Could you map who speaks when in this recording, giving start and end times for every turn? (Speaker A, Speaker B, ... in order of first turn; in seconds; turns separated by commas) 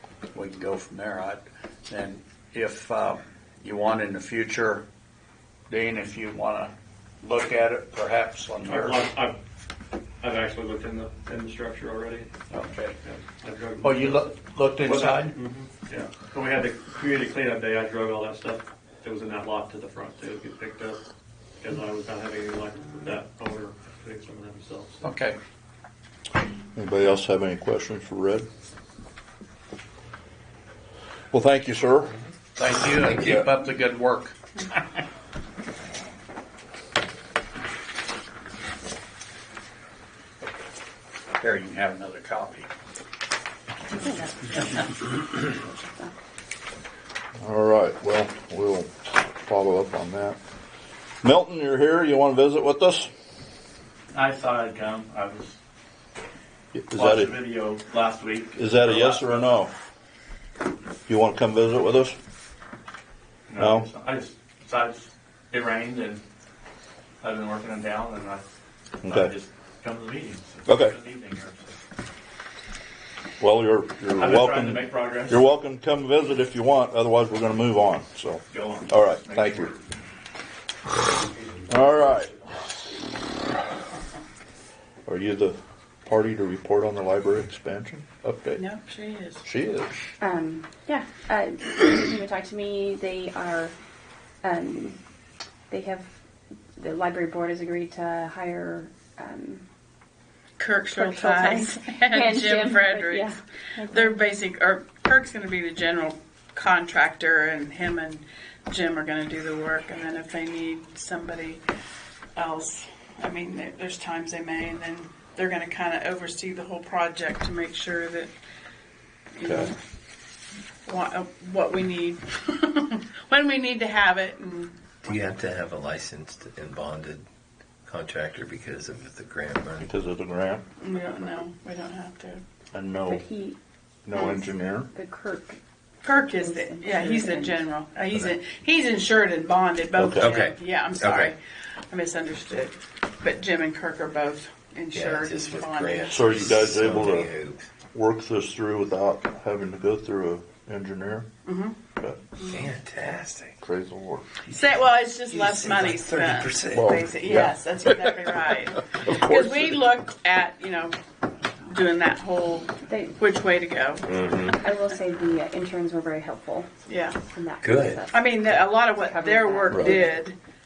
Speaker A: 0.3-4.8, Speaker A: 5.7-9.1, Speaker B: 8.7-9.4, Speaker B: 10.2-12.3, Speaker A: 12.5-13.0, Speaker B: 13.0-14.3, Speaker A: 13.8-15.4, Speaker B: 14.9-21.0, Speaker B: 21.6-25.0, Speaker A: 25.0-25.4, Speaker C: 26.8-28.5, Speaker C: 31.3-32.2, Speaker A: 32.6-34.8, Speaker C: 33.2-33.5, Speaker A: 41.4-42.7, Speaker D: 44.0-46.1, Speaker C: 47.4-50.4, Speaker C: 51.2-53.1, Speaker E: 54.1-55.6, Speaker C: 56.7-57.4, Speaker E: 56.9-59.6, Speaker C: 58.6-59.7, Speaker C: 61.1-62.2, Speaker E: 63.5-66.2, Speaker C: 63.6-63.9, Speaker E: 67.2-68.4, Speaker C: 69.0-69.3, Speaker E: 69.0-71.8, Speaker C: 70.7-71.0, Speaker C: 73.4-79.7, Speaker E: 74.2-75.4, Speaker E: 78.5-79.8, Speaker E: 81.5-82.8, Speaker C: 81.7-82.3, Speaker C: 85.1-88.6, Speaker F: 88.5-89.4, Speaker C: 89.4-89.9, Speaker D: 90.2-93.7, Speaker D: 94.4-95.0, Speaker D: 95.7-96.1, Speaker D: 96.8-99.7, Speaker F: 100.6-103.3, Speaker D: 100.9-104.2, Speaker F: 103.9-111.6, Speaker F: 112.4-118.3, Speaker F: 119.4-119.8, Speaker C: 119.4-119.7, Speaker F: 120.9-124.8, Speaker G: 125.0-127.2, Speaker G: 127.8-129.9, Speaker C: 129.8-130.6, Speaker F: 130.8-132.4, Speaker C: 132.7-133.2, Speaker D: 133.1-133.6, Speaker C: 134.1-134.9, Speaker D: 134.9-135.6, Speaker F: 136.0-141.4, Speaker D: 136.3-137.6, Speaker G: 138.1-138.4, Speaker C: 140.0-140.3, Speaker G: 140.2-141.3, Speaker F: 141.9-146.5, Speaker G: 144.9-147.7, Speaker C: 146.1-147.3, Speaker C: 147.9-151.3, Speaker F: 151.5-151.8, Speaker G: 152.4-153.6, Speaker C: 153.6-154.3, Speaker F: 154.5-161.0, Speaker G: 155.3-157.0, Speaker C: 156.7-158.0, Speaker C: 159.0-159.8, Speaker F: 161.6-164.0, Speaker D: 162.9-163.2, Speaker G: 164.0-164.6, Speaker D: 164.5-170.2, Speaker F: 166.9-167.2, Speaker G: 167.6-168.1, Speaker F: 168.1-170.4, Speaker C: 169.7-169.9